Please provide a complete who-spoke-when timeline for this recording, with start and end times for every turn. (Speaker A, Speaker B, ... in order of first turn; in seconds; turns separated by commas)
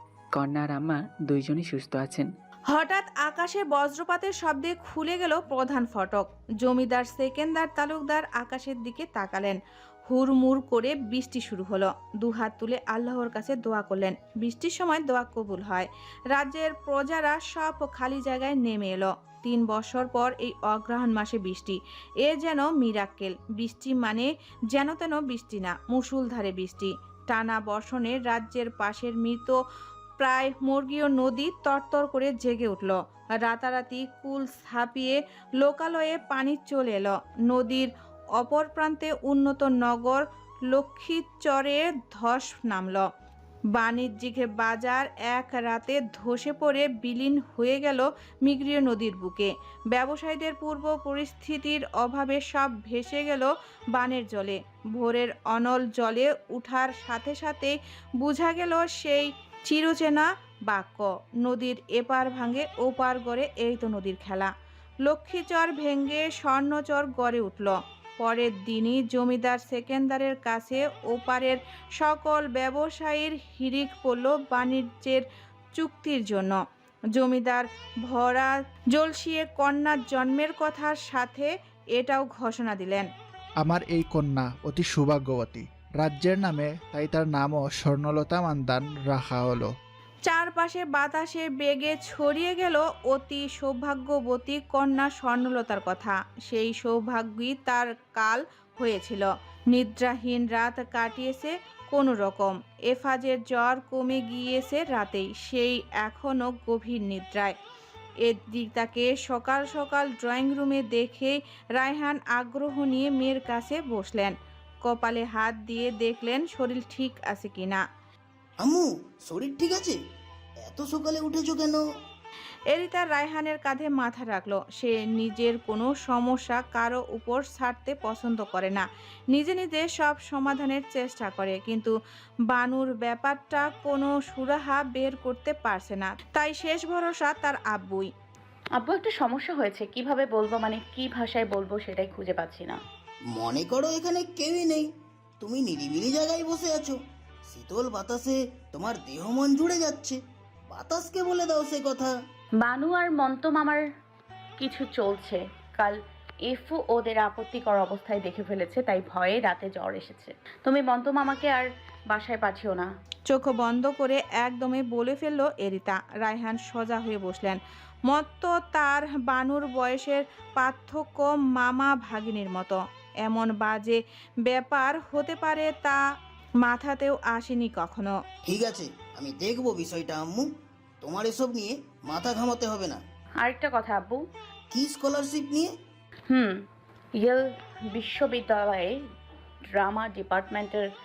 Speaker A: 0.3-2.3, Speaker B: 2.7-9.6, Speaker B: 10.1-29.6, Speaker B: 30.2-43.0, Speaker B: 43.8-64.5, Speaker B: 65.0-75.2, Speaker B: 75.8-76.6, Speaker B: 77.2-83.1, Speaker C: 83.6-89.7, Speaker B: 90.3-107.5, Speaker B: 108.2-117.8, Speaker D: 118.6-120.0, Speaker D: 120.7-121.8, Speaker B: 122.7-131.9, Speaker B: 132.5-138.1, Speaker E: 138.8-142.8, Speaker D: 143.4-144.9, Speaker D: 145.4-147.0, Speaker D: 147.5-150.2, Speaker D: 150.7-152.1, Speaker E: 152.6-153.8, Speaker E: 154.6-156.0, Speaker E: 156.5-162.9, Speaker B: 163.3-176.0, Speaker B: 176.6-178.1, Speaker D: 178.5-180.5, Speaker D: 181.0-183.0, Speaker E: 183.4-184.2, Speaker D: 184.7-185.7, Speaker E: 186.3-186.6, Speaker E: 187.2-189.0, Speaker E: 189.7-190.9